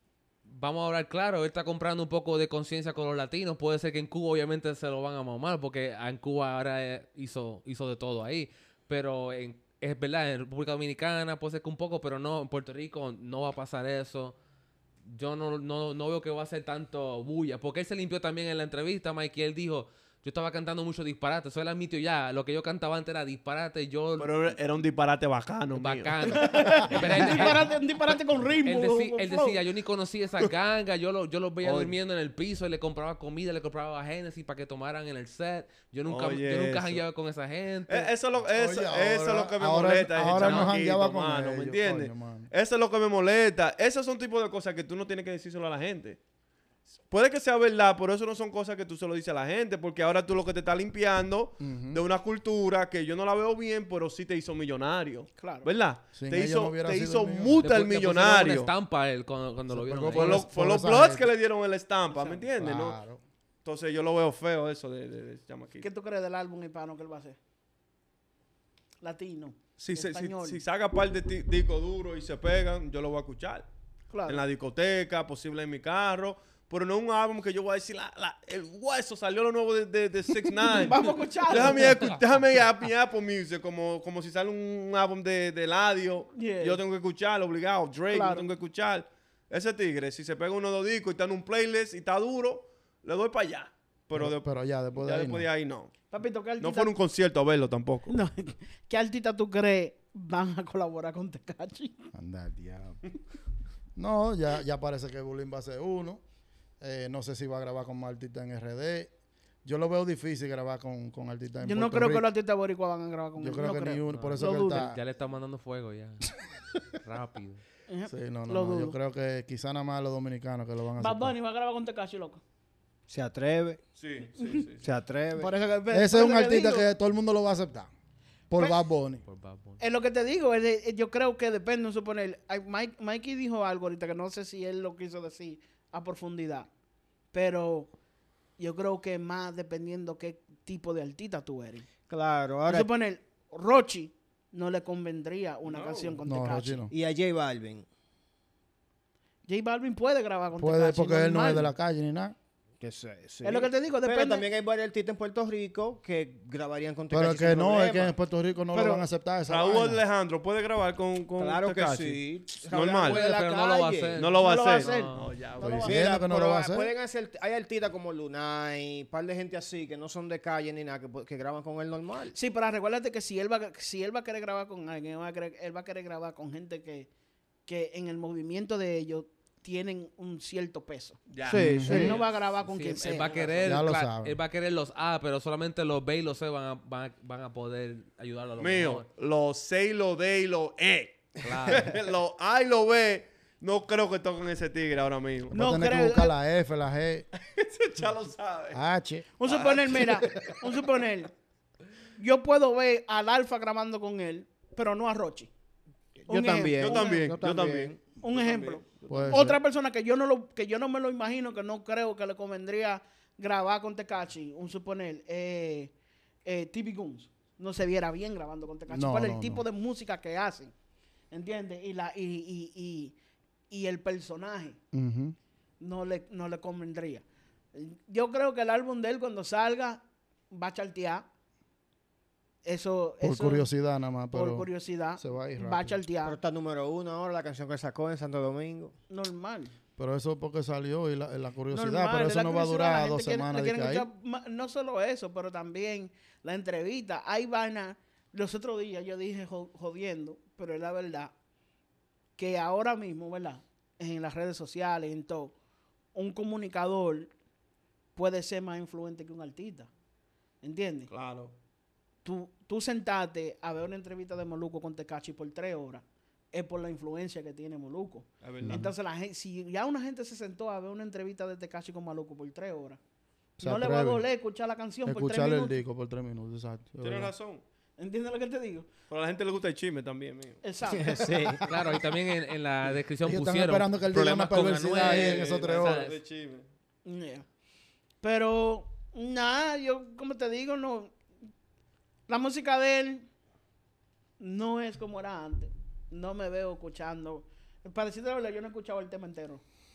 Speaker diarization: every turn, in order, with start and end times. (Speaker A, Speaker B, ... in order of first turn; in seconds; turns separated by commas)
Speaker A: 0.5-14.3, Speaker A: 15.1-24.6, Speaker B: 24.2-27.5, Speaker A: 25.7-27.7, Speaker C: 26.3-29.6, Speaker A: 28.6-38.1, Speaker B: 31.6-31.9, Speaker B: 36.1-37.0, Speaker B: 37.9-46.2, Speaker D: 38.5-42.5, Speaker A: 40.3-40.7, Speaker B: 47.1-58.7, Speaker D: 51.6-52.0, Speaker C: 55.4-55.7, Speaker D: 56.1-57.6, Speaker A: 57.5-60.5, Speaker D: 59.7-61.3, Speaker B: 60.1-63.0, Speaker C: 62.1-62.4, Speaker D: 62.5-63.2, Speaker B: 63.6-65.9, Speaker C: 65.8-67.4, Speaker C: 69.0-70.6, Speaker B: 69.8-73.7, Speaker C: 74.1-74.4, Speaker B: 74.3-95.9, Speaker C: 80.7-82.2, Speaker C: 86.3-86.8, Speaker C: 88.1-88.5, Speaker D: 94.1-95.5, Speaker C: 96.1-96.9, Speaker B: 96.6-98.2, Speaker C: 98.1-102.1, Speaker D: 102.1-103.0, Speaker D: 104.0-106.2, Speaker D: 106.8-109.1, Speaker D: 109.6-112.3, Speaker C: 111.6-114.9, Speaker D: 113.4-115.0, Speaker A: 114.1-117.6, Speaker C: 117.9-119.0, Speaker D: 118.1-121.3, Speaker C: 121.0-122.4, Speaker E: 123.1-123.8, Speaker B: 124.0-124.9, Speaker C: 124.3-124.7, Speaker E: 124.8-125.5, Speaker C: 125.3-126.9, Speaker D: 125.9-127.9, Speaker D: 128.5-129.2, Speaker A: 129.3-129.8, Speaker C: 129.8-136.7, Speaker C: 137.3-137.9, Speaker C: 138.6-141.8, Speaker E: 142.1-142.9, Speaker C: 142.7-146.9, Speaker B: 145.7-146.2, Speaker D: 146.2-146.9, Speaker E: 146.9-147.8, Speaker C: 149.5-151.7, Speaker D: 150.6-152.3, Speaker E: 152.8-158.1, Speaker C: 153.4-154.5, Speaker D: 157.1-160.0, Speaker C: 158.7-159.0, Speaker B: 159.5-163.2, Speaker E: 161.4-164.2, Speaker A: 163.0-165.2, Speaker B: 164.2-165.9, Speaker C: 164.4-166.0, Speaker D: 165.6-166.9, Speaker E: 165.8-172.3, Speaker C: 172.3-177.1, Speaker C: 177.7-181.2, Speaker B: 181.3-182.2, Speaker E: 181.4-182.2, Speaker D: 181.5-182.2, Speaker C: 181.8-183.6, Speaker A: 182.6-189.1, Speaker B: 183.3-183.8, Speaker D: 183.6-184.3, Speaker B: 188.6-195.5, Speaker A: 191.4-191.9, Speaker D: 195.5-197.3, Speaker C: 195.5-196.3, Speaker B: 197.5-198.8, Speaker D: 198.7-199.3, Speaker C: 199.4-201.3, Speaker B: 199.4-200.7, Speaker C: 202.2-205.5, Speaker E: 206.2-208.0, Speaker C: 206.3-207.3, Speaker B: 206.8-208.9, Speaker C: 208.2-215.9, Speaker E: 209.0-209.5, Speaker D: 209.1-209.6, Speaker C: 216.4-220.7, Speaker D: 218.9-219.6, Speaker C: 221.3-223.1, Speaker C: 223.7-224.8, Speaker D: 224.9-225.3, Speaker C: 225.8-231.2, Speaker C: 232.6-233.7, Speaker D: 233.2-236.0, Speaker C: 234.3-236.4, Speaker E: 236.2-238.9, Speaker C: 239.1-239.7, Speaker D: 240.0-244.1, Speaker C: 241.7-251.3, Speaker C: 252.4-255.5, Speaker C: 256.1-257.3, Speaker C: 258.1-259.9, Speaker C: 260.6-261.1, Speaker B: 261.1-261.5, Speaker C: 262.2-273.0, Speaker B: 268.4-268.9, Speaker D: 268.6-268.9, Speaker C: 273.6-275.8, Speaker D: 273.6-274.2, Speaker D: 275.0-277.3, Speaker B: 277.0-277.6, Speaker C: 278.0-278.9, Speaker B: 279.1-280.6, Speaker C: 280.6-281.6, Speaker E: 280.9-282.0, Speaker A: 281.6-286.1, Speaker D: 283.2-286.1, Speaker B: 284.9-286.7, Speaker C: 287.0-287.4, Speaker C: 288.2-291.1, Speaker C: 292.3-293.3, Speaker C: 294.4-299.6